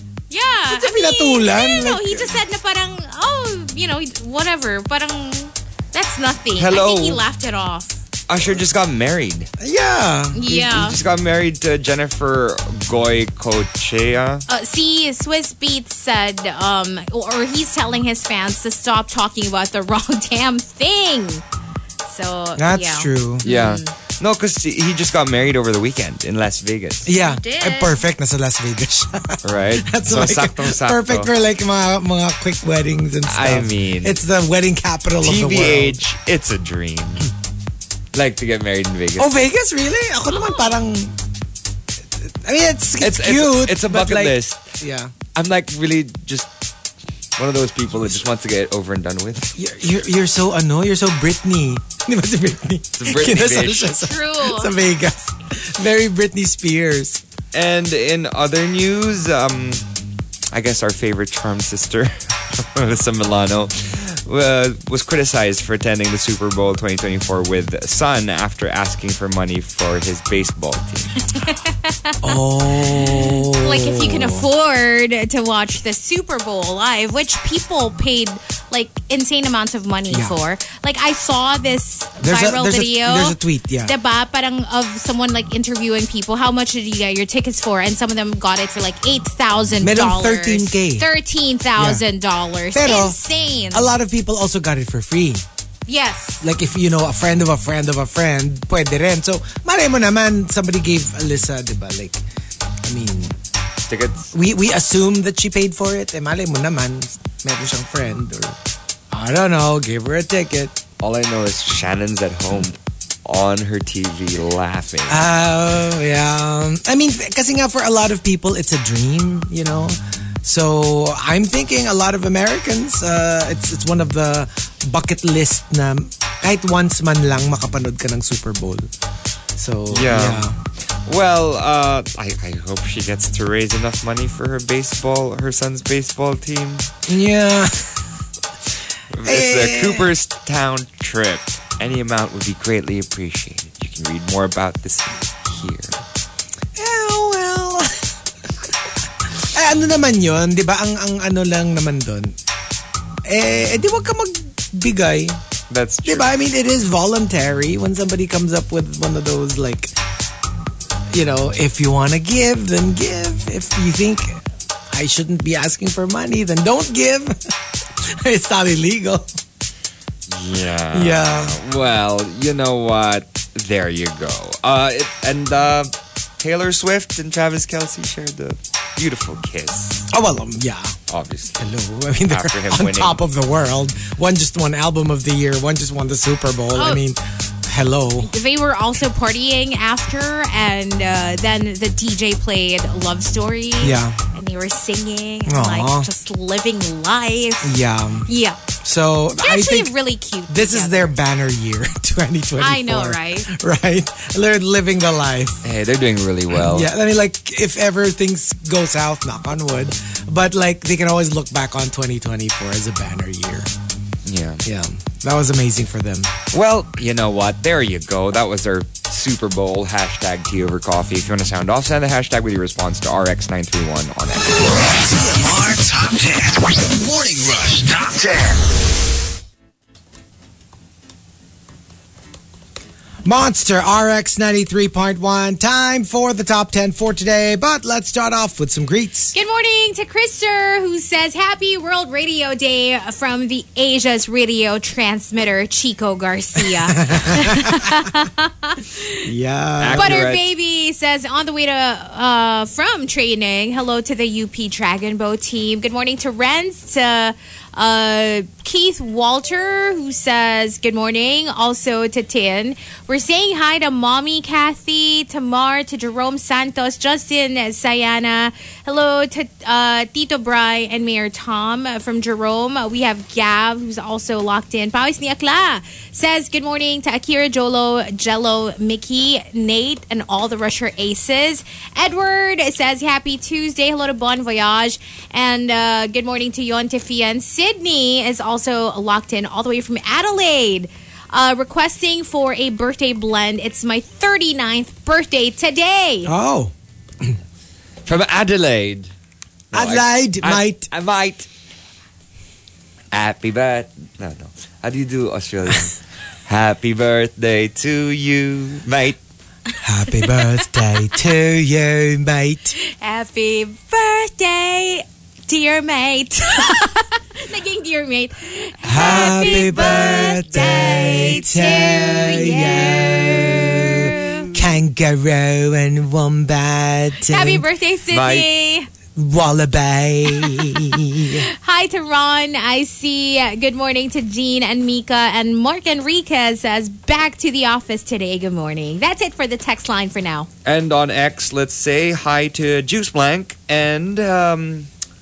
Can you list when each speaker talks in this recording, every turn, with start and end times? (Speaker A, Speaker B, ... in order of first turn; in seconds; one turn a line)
Speaker A: 0.3-8.0
Speaker B: 0.7-2.4
Speaker C: 6.6-7.2
Speaker C: 8.3-9.5
Speaker B: 9.6-10.5
Speaker A: 10.3-11.0
Speaker C: 10.5-14.4
Speaker A: 14.5-21.4
Speaker A: 22.0-23.9
Speaker B: 22.6-23.4
Speaker C: 23.4-27.1
Speaker B: 27.0-36.0
Speaker A: 27.1-28.0
Speaker C: 29.4-31.3
Speaker C: 33.3-34.2
Speaker C: 35.2-37.3
Speaker C: 38.1-39.4
Speaker B: 39.2-41.2
Speaker A: 40.4-40.7
Speaker B: 42.2-45.1
Speaker C: 43.0-44.6
Speaker C: 45.3-46.5
Speaker C: 47.4-49.5
Speaker B: 49.5-57.2
Speaker C: 53.0-53.9
Speaker A: 54.0-54.7
Speaker C: 57.5-59.8
Speaker C: 60.5-71.3
Speaker A: 71.3-72.4
Speaker B: 72.2-74.5
Speaker A: 72.9-93.9
Speaker B: 80.1-80.4
Speaker B: 82.2-83.9
Speaker B: 89.8-91.1
Speaker B: 91.8-92.0
Speaker B: 92.7-93.2
Speaker B: 93.7-95.4
Speaker A: 95.9-96.4
Speaker B: 96.4-102.2
Speaker B: 102.8-103.4
Speaker C: 103.9-104.3
Speaker B: 104.3-108.6
Speaker B: 109.1-110.8
Speaker C: 111.0-115.2
Speaker B: 115.1-128.9
Speaker B: 129.6-130.6
Speaker C: 129.9-136.9
Speaker B: 137.1-138.1
Speaker C: 139.1-146.0
Speaker B: 139.2-140.1
Speaker B: 146.8-148.1
Speaker B: 149.3-152.4
Speaker B: 153.3-155.4
Speaker C: 155.7-156.3
Speaker B: 156.1-159.9
Speaker B: 161.1-169.3
Speaker C: 170.3-180.1
Speaker B: 170.9-171.6
Speaker B: 180.1-181.0
Speaker C: 181.1-181.7
Speaker B: 181.6-188.3
Speaker C: 182.3-183.2
Speaker A: 186.8-187.0
Speaker A: 188.2-197.7
Speaker B: 193.8-194.2
Speaker B: 195.5-196.1
Speaker B: 197.6-198.3
Speaker A: 198.3-198.6
Speaker B: 198.8-199.9
Speaker A: 199.4-201.1
Speaker B: 200.5-205.7
Speaker A: 202.6-203.5
Speaker C: 205.6-206.9
Speaker B: 206.5-213.7
Speaker C: 214.3-214.6
Speaker B: 214.6-216.3
Speaker C: 216.5-224.6
Speaker D: 224.5-228.7
Speaker B: 233.2-239.3
Speaker A: 239.3-249.2
Speaker B: 246.8-248.0
Speaker B: 249.2-250.3
Speaker C: 249.8-250.4
Speaker A: 249.9-296.3
Speaker B: 296.2-297.4
Speaker C: 298.1-299.1
Speaker C: 299.7-301.5
Speaker B: 299.7-300.9
Speaker C: 303.1-309.2
Speaker B: 309.8-312.8
Speaker A: 310.3-310.8
Speaker A: 312.8-324.5
Speaker B: 318.8-327.6
Speaker C: 319.0-321.4
Speaker C: 322.7-323.1
Speaker A: 327.3-328.9
Speaker C: 328.1-328.5
Speaker B: 329.1-331.5
Speaker A: 330.5-340.5
Speaker C: 340.6-344.9